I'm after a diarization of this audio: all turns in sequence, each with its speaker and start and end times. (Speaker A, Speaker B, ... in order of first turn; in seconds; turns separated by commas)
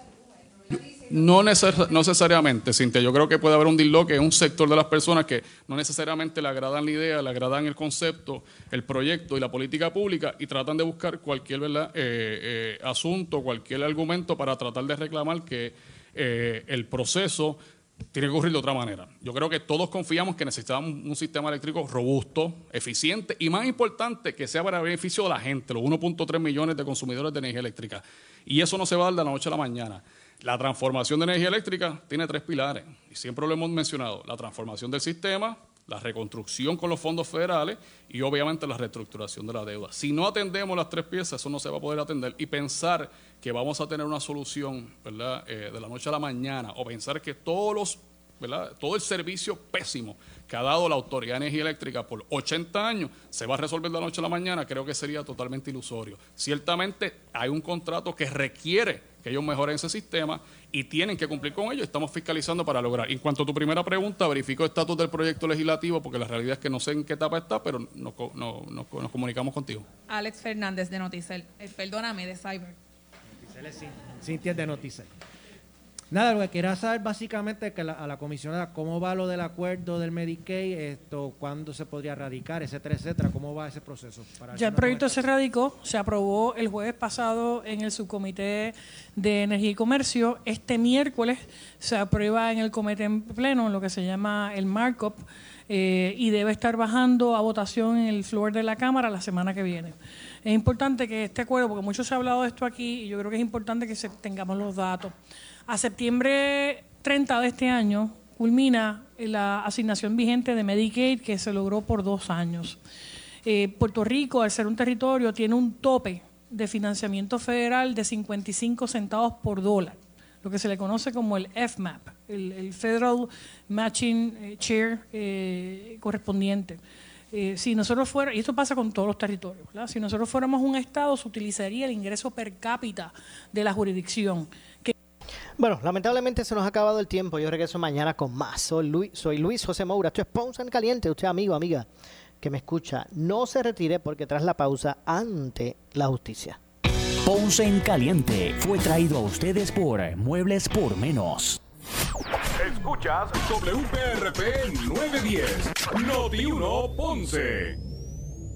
Speaker A: 0.7-17.6, Speaker A: 18.1-69.9, Speaker B: 70.1-72.8, Speaker C: 73.4-75.1, Speaker C: 76.1-85.2, Speaker D: 84.5-105.1, Speaker D: 105.7-112.8, Speaker D: 113.4-126.8, Speaker D: 127.3-134.9, Speaker E: 135.6-141.9, Speaker E: 142.4-146.6, Speaker F: 147.2-151.6, Speaker G: 152.6-157.8